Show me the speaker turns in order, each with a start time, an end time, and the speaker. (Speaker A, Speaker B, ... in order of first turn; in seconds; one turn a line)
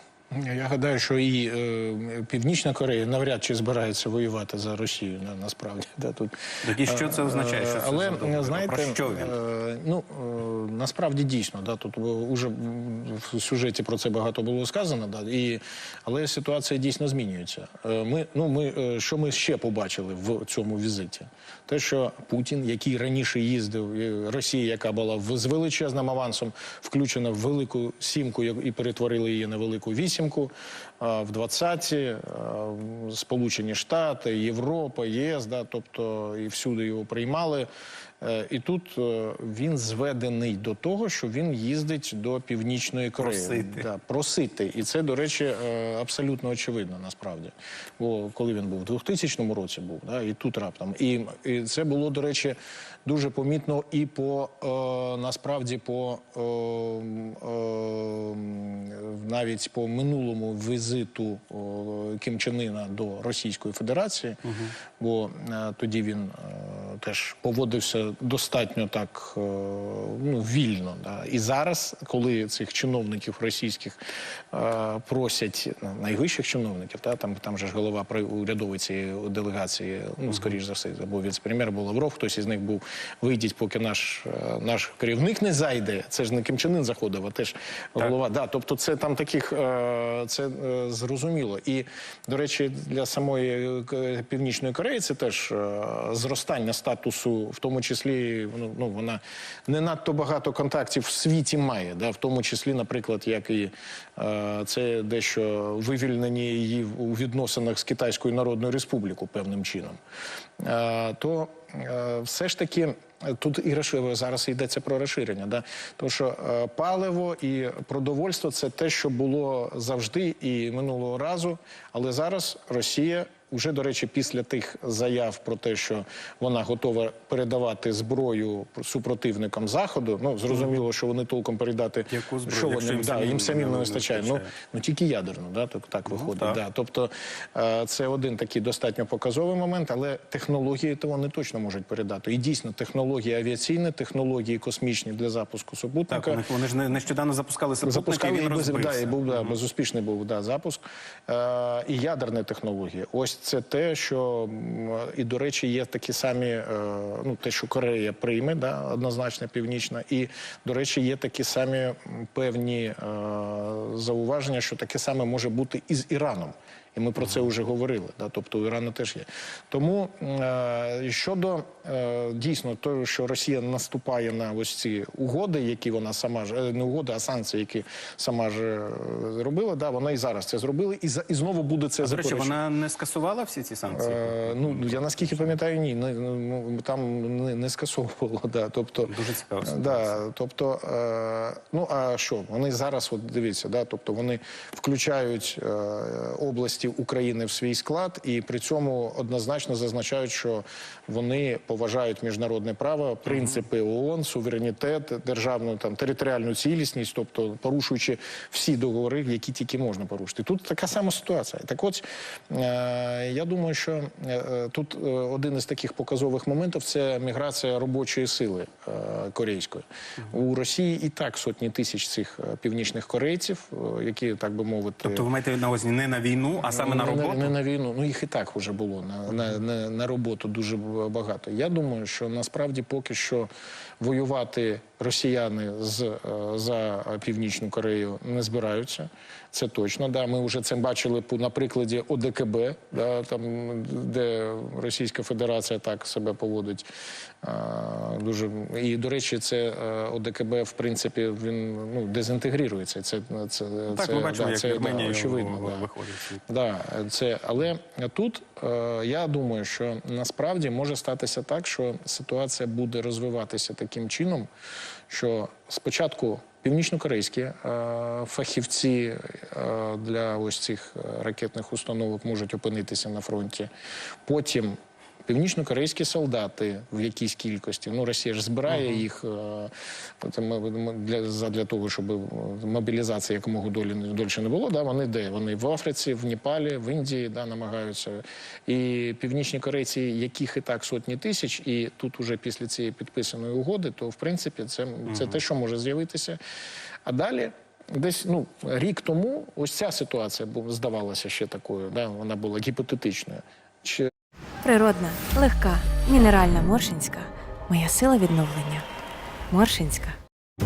Speaker A: 0.3-37.7
Speaker B: 6.6-9.3
Speaker A: 38.2-64.4
Speaker B: 43.2-43.9
Speaker B: 64.5-64.7
Speaker A: 65.0-74.0
Speaker A: 74.5-110.0
Speaker A: 110.6-146.4
Speaker B: 132.1-134.5
Speaker B: 136.1-136.6
Speaker B: 146.1-149.5
Speaker A: 147.8-182.6
Speaker B: 182.0-185.5
Speaker A: 183.9-225.2
Speaker B: 189.1-190.2
Speaker B: 225.0-227.5
Speaker A: 226.6-233.5
Speaker A: 234.0-246.9
Speaker A: 247.4-255.9
Speaker B: 253.9-256.4
Speaker A: 256.5-264.5
Speaker A: 265.1-273.7
Speaker A: 274.2-296.4
Speaker B: 278.7-279.0
Speaker B: 295.1-295.4
Speaker A: 297.0-304.1
Speaker C: 304.6-308.8
Speaker C: 309.5-310.2